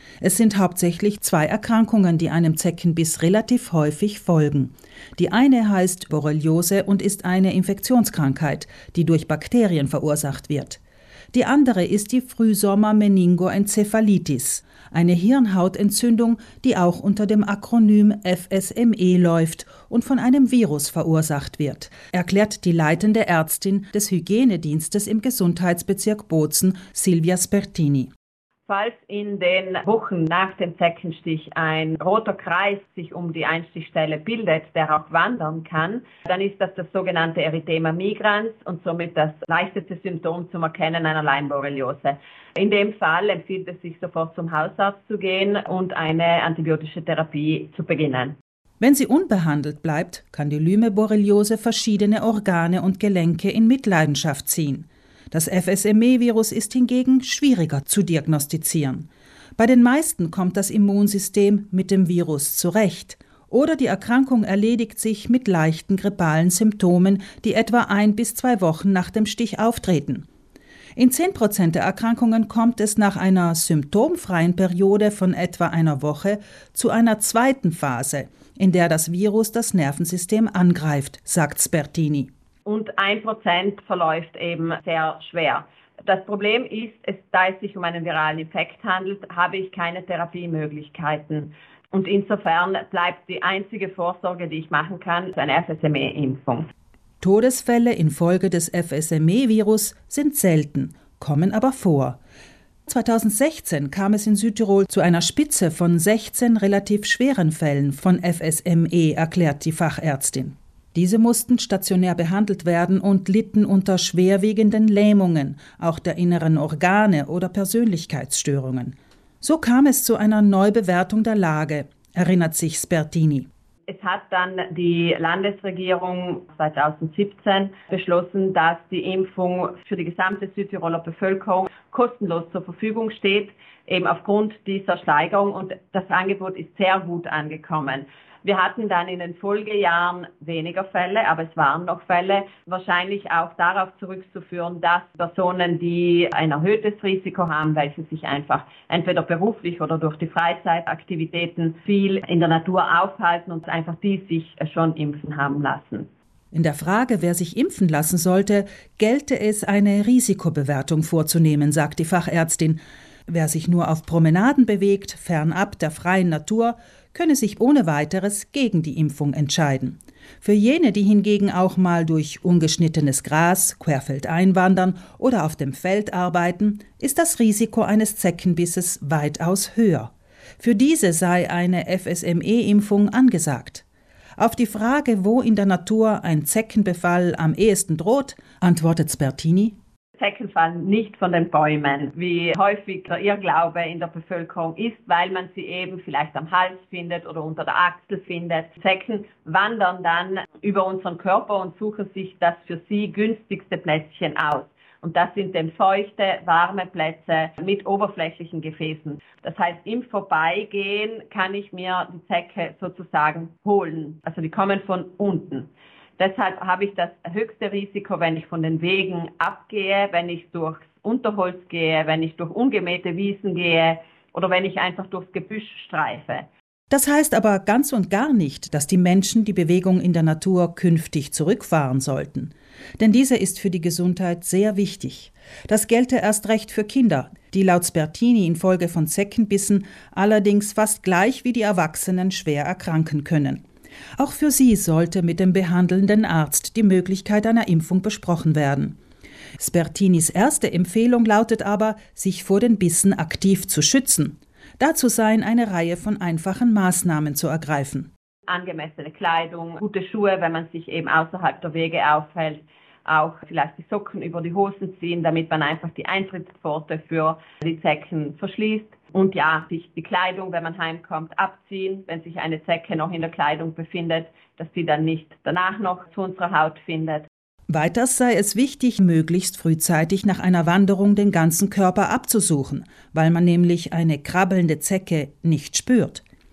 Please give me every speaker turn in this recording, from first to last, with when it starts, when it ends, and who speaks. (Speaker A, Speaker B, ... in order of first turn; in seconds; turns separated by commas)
Speaker A: 0.2-10.8, Speaker A: 11.3-28.1, Speaker B: 28.7-48.4, Speaker A: 48.8-70.3, Speaker A: 71.0-82.3, Speaker B: 82.7-96.7, Speaker A: 97.2-102.2, Speaker A: 102.9-123.5, Speaker B: 123.9-156.1, Speaker A: 156.5-183.8, Speaker A: 184.4-189.8, Speaker B: 190.2-226.5, Speaker A: 226.9-243.6, Speaker A: 244.2-249.0, Speaker A: 249.6-258.1, Speaker B: 258.5-277.3, Speaker A: 277.7-286.2